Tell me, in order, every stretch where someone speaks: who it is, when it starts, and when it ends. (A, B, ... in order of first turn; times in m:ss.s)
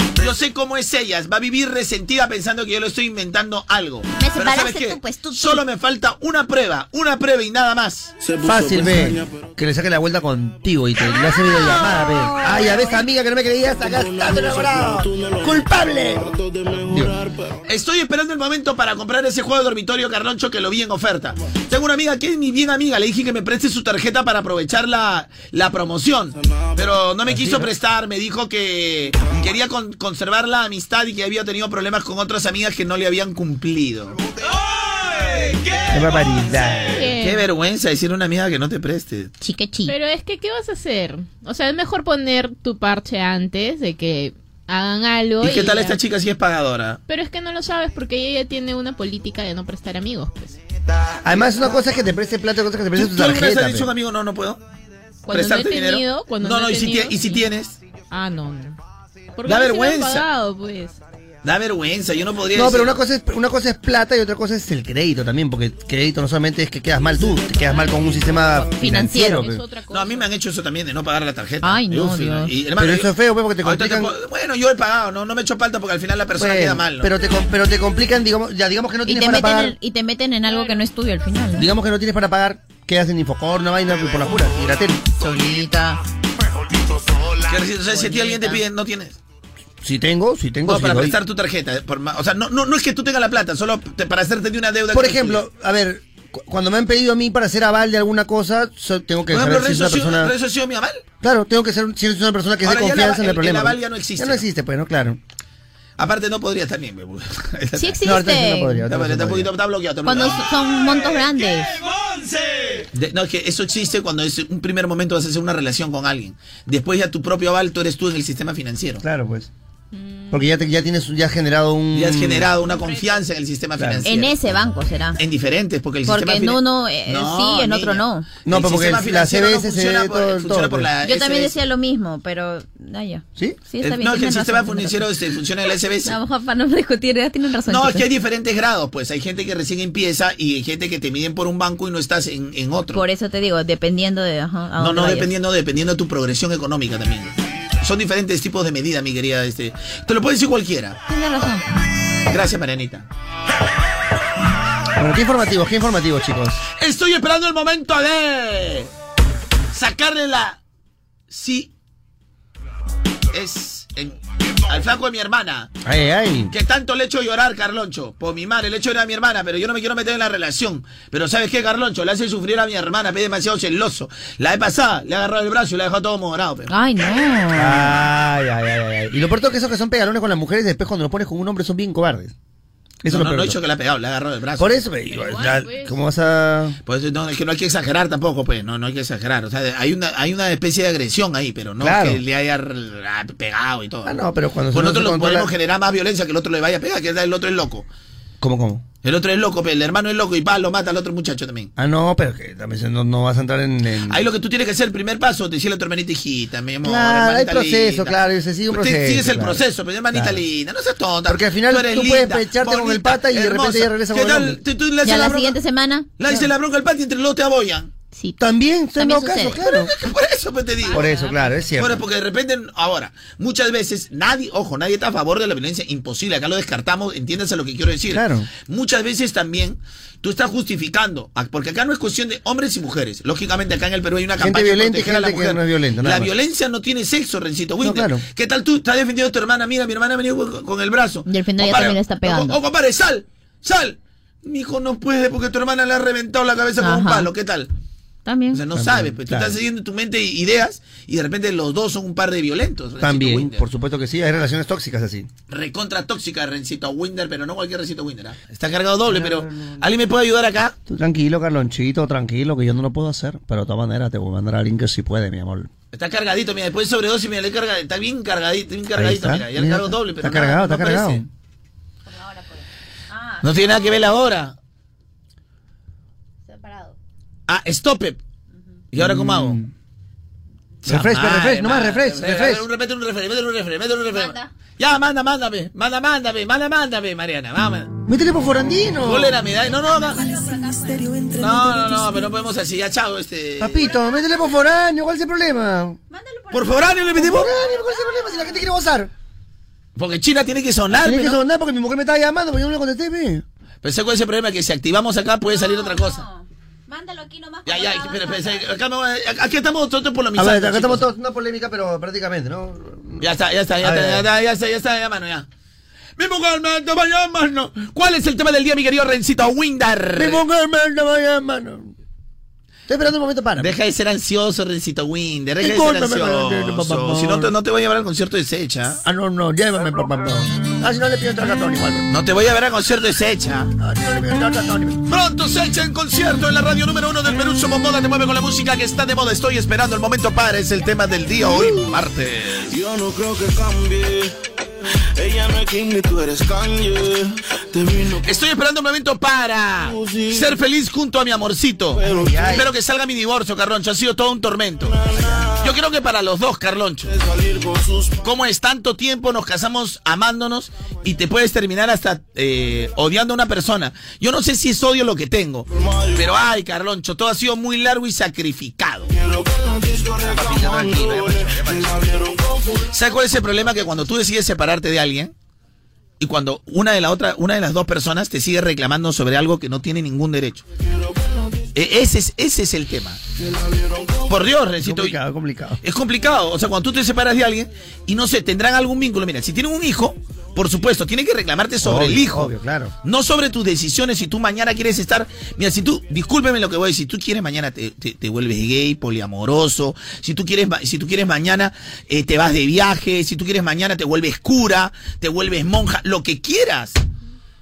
0:00.2-0:08.1 A
0:04.2-0:05.6 B
0:08.2-0:09.6 C
0:08.4-0:16.3 D
0:11.1-0:13.0 B
0:13.7-0:17.6 C
0:17.7-0:34.2 A
0:26.4-0:27.0 C
0:27.3-0:27.7 D
0:35.9-0:37.2 D
0:36.9-0:37.4 E
0:37.0-0:39.3 A
0:39.4-0:39.9 B
0:39.9-0:46.0 E
0:45.4-0:47.0 A
0:47.1-0:50.6 E
0:51.2-0:53.9 D
0:52.9-0:54.6 A
0:55.3-0:57.5 E
0:55.3-0:57.8 A
0:58.1-0:58.8 E
0:59.4-1:01.0 E
0:59.4-1:00.3 A
1:01.4-1:03.0 A
1:02.5-1:09.6 D
1:07.2-1:10.3 E
1:08.8-1:09.4 B
1:09.9-1:13.1 A
1:11.6-1:12.5 B
1:12.8-1:14.1 D
1:13.6-1:17.1 A
1:16.4-1:19.7 D
1:19.0-1:21.7 B
1:20.5-1:20.8 E
1:21.6-1:25.0 D
1:25.2-1:26.0 B
1:27.5-1:29.2 A
1:27.9-1:28.6 B
1:29.8-1:31.2 D
1:30.7-1:35.4 A
1:34.9-1:40.3 D
1:39.3-1:41.0 A
1:41.2-1:45.2 D
1:42.6-1:44.4 A
1:46.0-1:48.1 A
1:47.8-1:48.8 B
1:48.0-1:49.5 D
1:48.9-1:50.5 A
1:50.0-1:51.7 B
1:52.9-1:59.0 A
1:59.0-1:59.5 D
1:59.9-2:00.4 E
2:00.3-2:02.5 D
2:01.9-2:04.4 A
2:02.7-2:03.2 E
2:03.8-2:04.1 D
2:04.0-2:05.2 B
2:05.2-2:11.6 A
2:06.1-2:08.3 B
2:08.4-2:10.9 D
2:11.0-2:15.0 B
2:13.8-2:16.2 A
2:16.0-2:18.1 B
2:17.7-2:23.0 A
2:22.9-2:25.3 B
2:24.8-2:31.0 A
2:31.1-2:31.6 B
2:32.3-2:33.1 A
2:35.0-2:36.6 D
2:36.8-2:38.9 A
2:39.7-2:40.6 A
2:41.3-2:41.7 A
2:43.3-2:45.7 A
2:45.8-2:46.5 D
2:46.5-2:56.7 A
2:56.7-2:58.0 B
2:57.6-3:02.3 D
3:03.0-3:03.6 D
3:03.1-3:04.8 A
3:04.6-3:06.8 D
3:05.1-3:06.0 E
3:06.9-3:17.9 A
3:11.8-3:12.2 D
3:14.0-3:15.5 D
3:18.4-3:18.8 D
3:19.0-3:21.7 A
3:21.8-3:24.2 D
3:24.1-3:28.1 A
3:26.8-3:30.4 D
3:28.7-3:35.6 A
3:31.3-3:34.6 D
3:35.0-3:36.1 B
3:36.2-3:37.9 A
3:38.4-3:39.9 D
3:39.0-3:39.6 B
3:39.7-3:41.1 A
3:40.9-3:41.5 B
3:40.9-3:42.0 D
3:41.8-4:07.7 A
3:48.1-3:48.5 D
3:54.4-3:56.3 D
3:57.8-3:58.2 D
4:01.3-4:02.6 B
4:06.8-4:07.3 B
4:08.2-4:08.6 B
4:08.5-4:13.6 A
4:08.8-4:09.6 D
4:13.0-4:15.3 D
4:15.5-4:20.8 A
4:19.1-4:19.9 D
4:20.9-4:25.7 D
4:25.9-4:31.2 A
4:28.9-4:31.2 D
4:32.1-4:34.0 B
4:33.4-4:34.6 A
4:36.5-4:37.0 B
4:37.5-4:38.2 A
4:38.9-4:39.6 A
4:39.0-4:39.7 D
4:40.8-4:42.7 D
4:40.8-4:48.0 A
4:44.1-4:44.5 B
4:48.1-4:49.5 D
4:49.0-4:50.3 A
4:49.6-4:51.4 B
4:51.4-4:53.9 A
4:53.6-4:56.0 D
4:56.1-4:58.7 B
4:56.5-4:57.6 A
4:57.2-4:59.1 D
5:00.0-5:01.4 A
5:01.0-5:03.4 D
5:03.8-5:06.2 A
5:05.5-5:08.7 B
5:07.7-5:11.1 A
5:10.4-5:13.3 D
5:13.2-5:15.5 A
5:13.8-5:14.3 D
5:16.2-5:20.4 A
5:20.2-5:21.9 D
5:22.9-5:23.8 D
5:23.6-5:29.0 A
5:25.6-5:27.5 D
5:29.0-5:32.1 D
5:32.1-5:33.7 A
5:33.8-5:35.0 D
5:35.1-5:42.8 A
5:41.4-5:41.8 D
5:42.7-5:44.5 C
5:45.2-5:48.4 C
5:48.2-5:57.1 A
5:49.8-5:50.6 C
5:52.0-5:52.6 C
5:52.0-5:52.7 D
5:54.8-5:55.7 C
5:55.2-5:55.4 D
5:57.1-5:58.3 C
5:58.2-6:09.1 A
6:05.8-6:06.2 C
6:09.1-6:12.9 C
6:10.2-6:11.9 D
6:12.9-6:15.3 A
6:16.2-6:20.6 A
6:20.8-6:21.5 C
6:21.7-6:23.2 A
6:23.4-6:24.4 C
6:24.3-6:25.2 A
6:24.8-6:25.8 D
6:25.8-6:47.0 A
6:31.8-6:32.9 D